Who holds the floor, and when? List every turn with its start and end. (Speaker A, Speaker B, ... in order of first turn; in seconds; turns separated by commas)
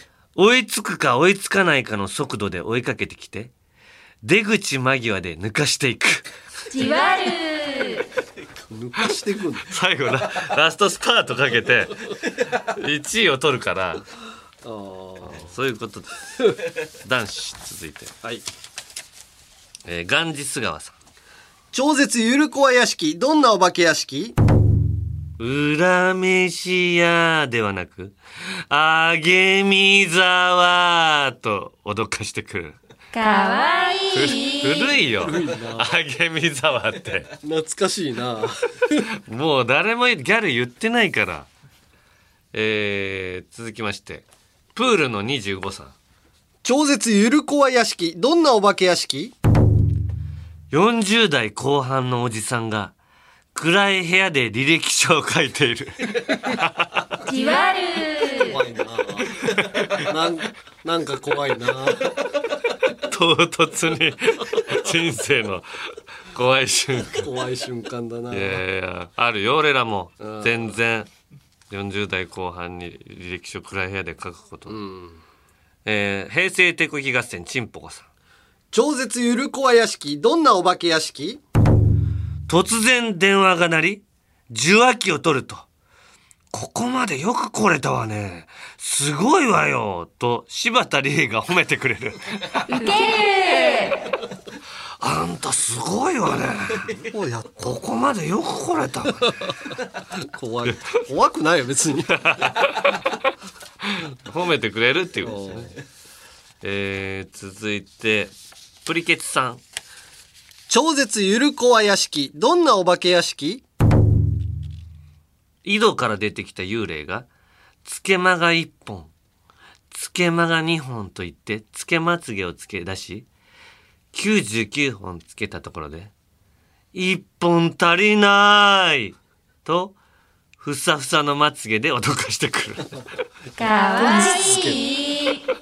Speaker A: 0.4-3.5, Speaker A: 4.2-6.3, Speaker B: 6.7-8.1, Speaker C: 8.7-9.7, Speaker A: 9.7-12.0, Speaker A: 12.5-14.1, Speaker C: 14.6-15.5, Speaker A: 15.2-16.1, Speaker A: 17.0-18.1, Speaker A: 19.9-20.9, Speaker C: 21.7-24.4, Speaker A: 25.4-28.2, Speaker A: 28.7-32.8, Speaker B: 33.1-35.0, Speaker A: 34.1-37.3, Speaker C: 35.2-35.9, Speaker C: 37.4-39.0, Speaker A: 39.2-41.5, Speaker A: 42.5-45.9, Speaker C: 46.6-49.4, Speaker A: 50.7-52.9, Speaker A: 53.5-57.1, Speaker B: 57.2-58.6, Speaker C: 58.4-62.2, Speaker A: 59.4-60.1, Speaker A: 62.9-65.7, Speaker A: 66.3-67.3, Speaker C: 67.1-68.6, Speaker A: 68.3-71.1, Speaker C: 70.2-70.7, Speaker A: 71.7-74.8, Speaker C: 74.7-75.2, Speaker A: 75.8-78.1, Speaker C: 78.7-81.4, Speaker A: 82.5-85.7, Speaker A: 86.5-92.5, Speaker B: 92.7-94.2, Speaker A: 95.0-97.0, Speaker C: 96.8-97.8, Speaker A: 97.6-99.3, Speaker C: 100.1-102.2, Speaker A: 100.7-101.0, Speaker A: 102.2-103.2, Speaker A: 103.8-105.7, Speaker C: 105.2-105.8, Speaker A: 106.6-108.3, Speaker A: 108.8-109.6, Speaker C: 110.7-113.6, Speaker A: 115.6-117.3, Speaker A: 117.8-119.1, Speaker A: 119.9-123.3, Speaker A: 124.1-126.1, Speaker A: 126.9-130.0, Speaker A: 130.6-133.0, Speaker B: 133.6-135.4, Speaker C: 134.0-134.8